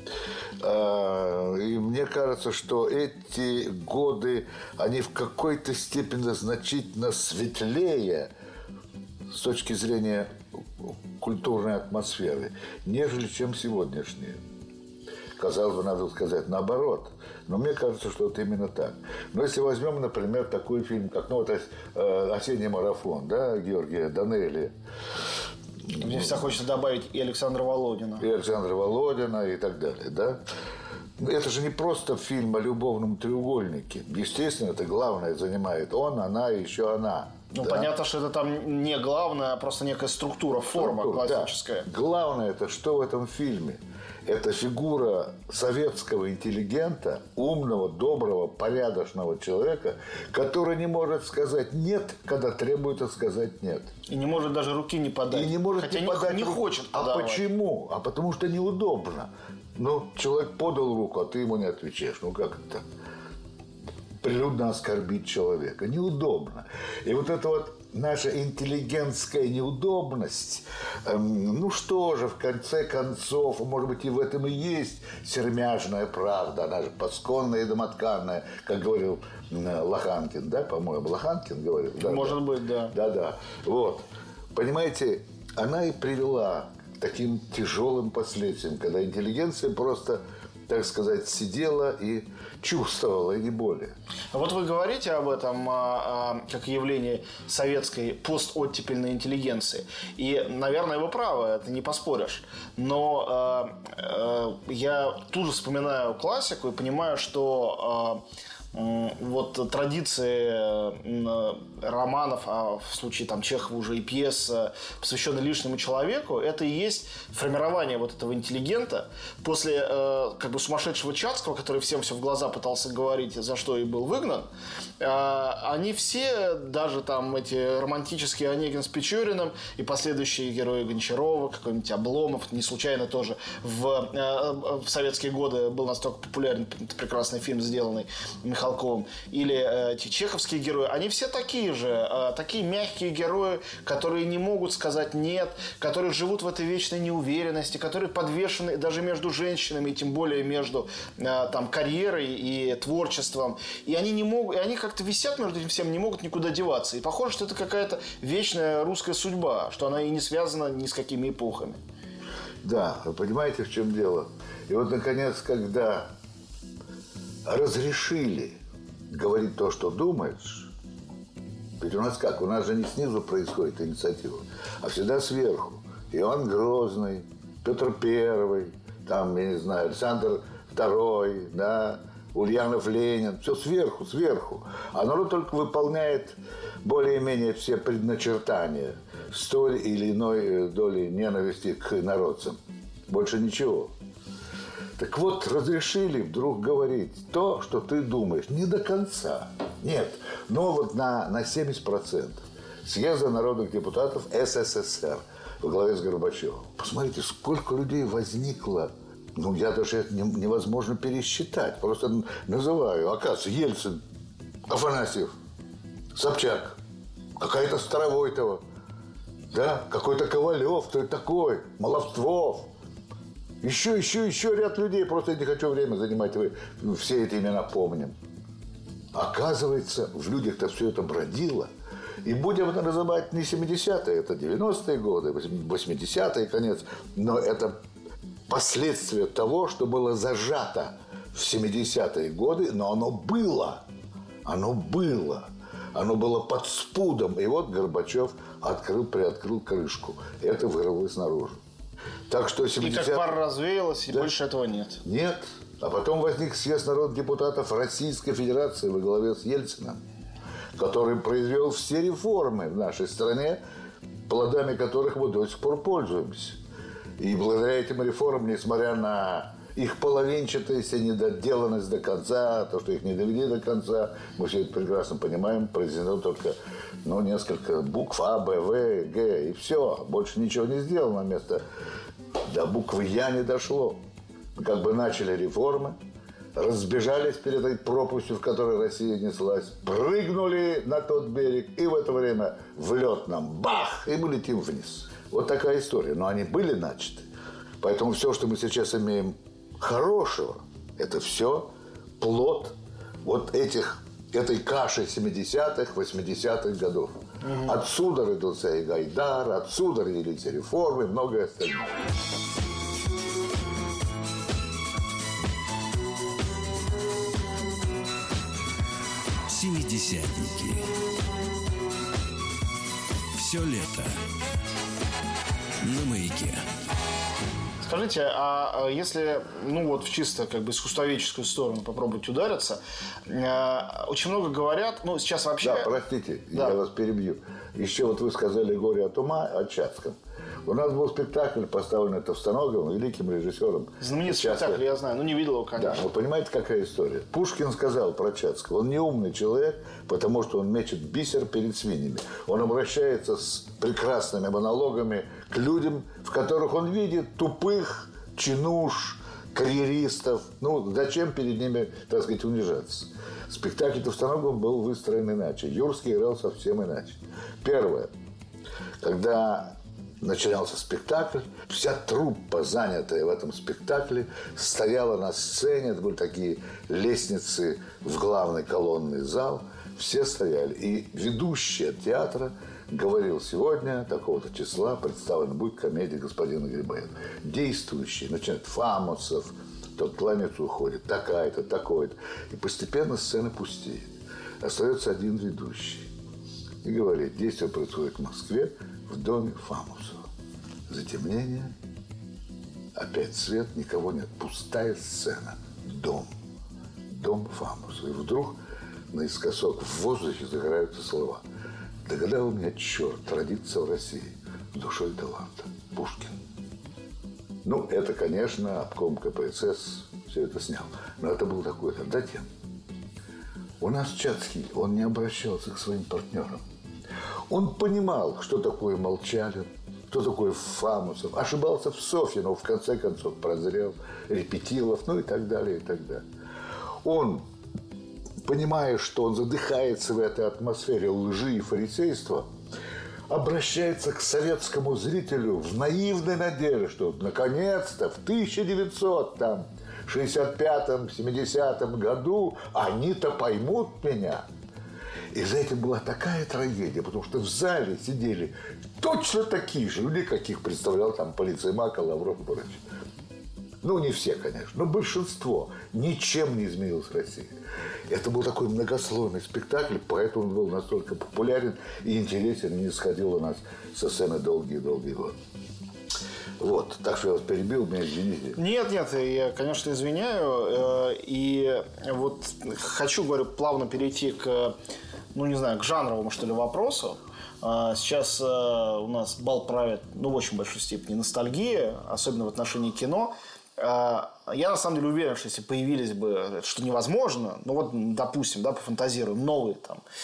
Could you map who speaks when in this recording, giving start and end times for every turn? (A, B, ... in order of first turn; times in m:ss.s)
0:00.6-0:08.3 A
0:09.3-0:10.3 A
0:10.8-0:14.4 A
0:15.4-0:24.7 A
0:25.9-0:26.6 A
0:25.9-0:28.2 B
0:28.2-0:30.4 A
0:31.2-0:37.9 A
0:37.5-0:41.9 B
0:40.7-0:53.9 A
0:54.1-0:57.4 B
0:55.3-1:02.8 A
1:04.2-1:22.4 A
1:22.0-1:22.9 B
1:22.9-1:33.9 A
1:34.3-1:48.2 B
1:48.7-2:04.5 B
2:05.0-2:41.8 B
2:42.6-2:46.1 A
2:47.4-2:48.6 A
2:49.1-2:50.7 A
2:51.8-3:13.9 A
3:15.0-3:34.0 A
3:34.6-3:35.3 A
3:36.1-3:36.8 A
3:37.4-3:38.6 A
3:39.5-3:42.7 A
3:43.6-3:48.2 A
3:49.1-3:51.7 A
3:52.2-3:57.8 A
3:58.5-4:03.8 A
4:04.4-4:11.6 A
4:12.3-4:13.4 A
4:12.8-4:15.0 B
4:15.0-4:20.0 A
4:20.8-4:23.6 A
4:24.3-4:26.6 A
4:27.2-4:41.6 A
4:42.4-4:44.0 A
4:44.5-4:46.0 A
4:46.5-4:57.2 A
4:57.8-5:12.0 A
5:07.4-5:07.8 B
5:19.5-5:20.9 C
5:23.4-5:24.2 C
5:25.8-5:26.6 C
5:27.8-5:35.9 B
5:35.6-5:44.8 A
5:44.0-5:46.0 B
5:45.8-6:08.1 A
6:09.0-6:36.1 A
6:36.8-6:40.3 A
6:40.9-6:41.7 A
6:42.9-6:46.3 A
6:47.1-6:48.6 A
6:49.1-6:51.4 A
6:52.0-6:56.4 A
6:57.6-7:02.5 A
7:03.8-7:06.6 A
7:07.5-7:16.2 A
7:17.0-7:17.4 A
7:18.4-7:22.5 A
7:23.3-7:34.4 A
7:35.3-7:42.8 A
7:43.8-7:47.5 A
7:48.1-7:55.4 A
7:56.6-7:58.6 A
7:58.5-8:04.7 B
8:05.3-8:20.0 B